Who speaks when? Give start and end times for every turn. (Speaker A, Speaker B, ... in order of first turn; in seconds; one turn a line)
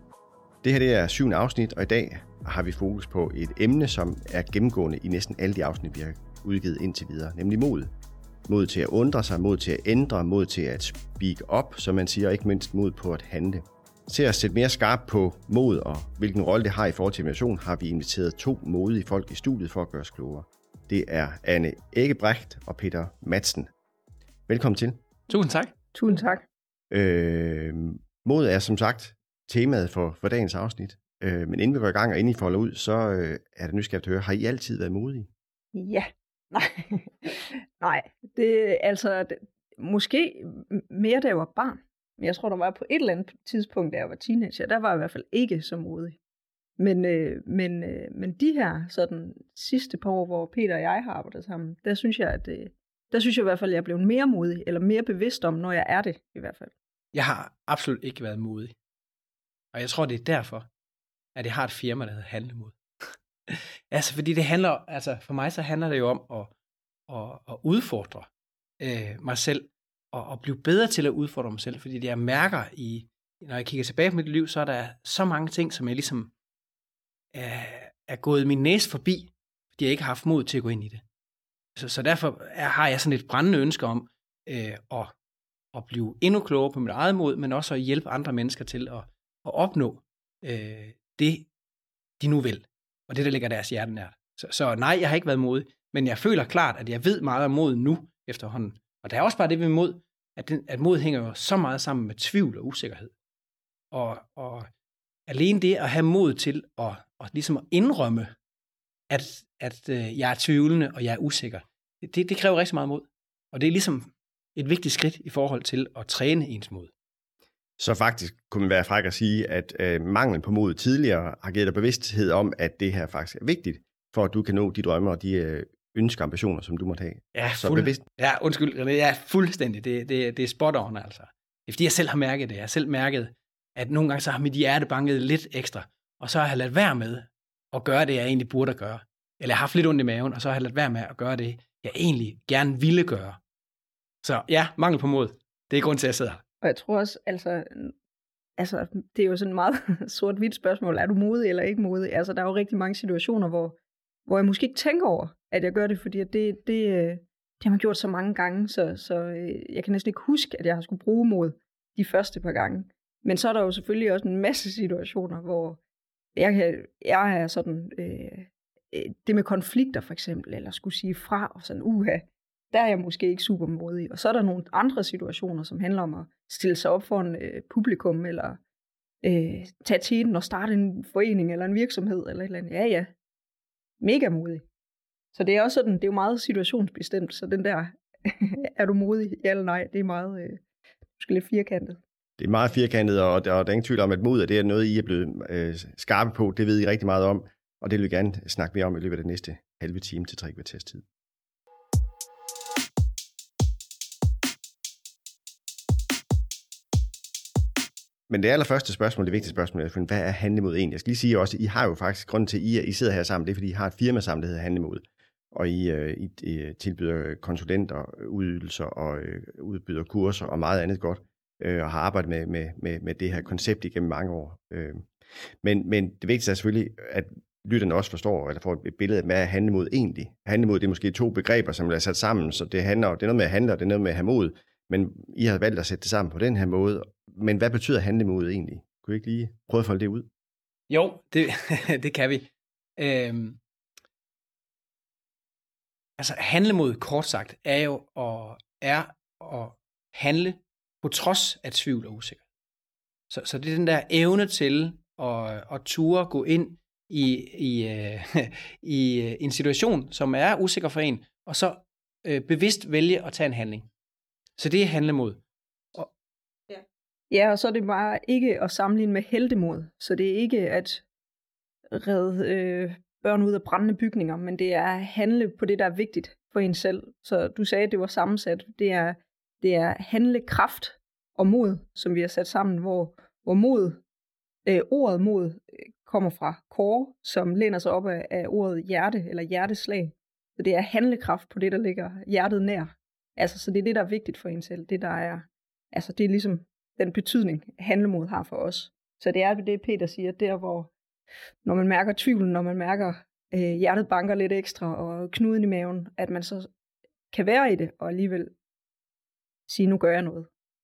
Speaker A: 0.6-7.9
Speaker A: 8.5-23.7
Speaker A: 24.5-25.0
Speaker B: 25.3-25.7
Speaker C: 25.9-26.4
Speaker A: 26.9-35.3
Speaker C: 35.7-46.2
Speaker C: 46.8-56.7
Speaker B: 57.1-58.7
Speaker B: 59.7-60.7
Speaker B: 61.3-62.8
Speaker B: 63.5-66.5
Speaker B: 67.1-68.3
Speaker B: 68.8-76.3
Speaker B: 77.3-81.0
Speaker B: 81.8-85.1
Speaker B: 85.7-91.5
Speaker B: 92.2-103.1
Speaker B: 103.9-104.7
Speaker B: 105.3-108.3
Speaker B: 109.1-116.9
Speaker A: 117.8-128.0
Speaker B: 127.3-143.4
Speaker B: 144.2-146.4
Speaker C: 146.6-147.9
Speaker C: 148.6-165.8
Speaker C: 166.3-178.6
Speaker C: 179.2-183.1
Speaker C: 184.0-184.6
Speaker C: 185.3-190.6
Speaker C: 191.2-192.0
Speaker A: 192.4-201.0
Speaker A: 208.3-225.1
Speaker A: 225.6-240.3
Speaker B: 240.9-243.6
Speaker B: 246.2-252.4
Speaker B: 253.3-263.9
Speaker B: 264.6-265.4
Speaker C: 267.3-271.0
Speaker C: 271.9-284.0
Speaker C: 284.6-300.9
Speaker C: 301.6-306.7
Speaker C: 307.3-308.5
Speaker C: 309.7-310.5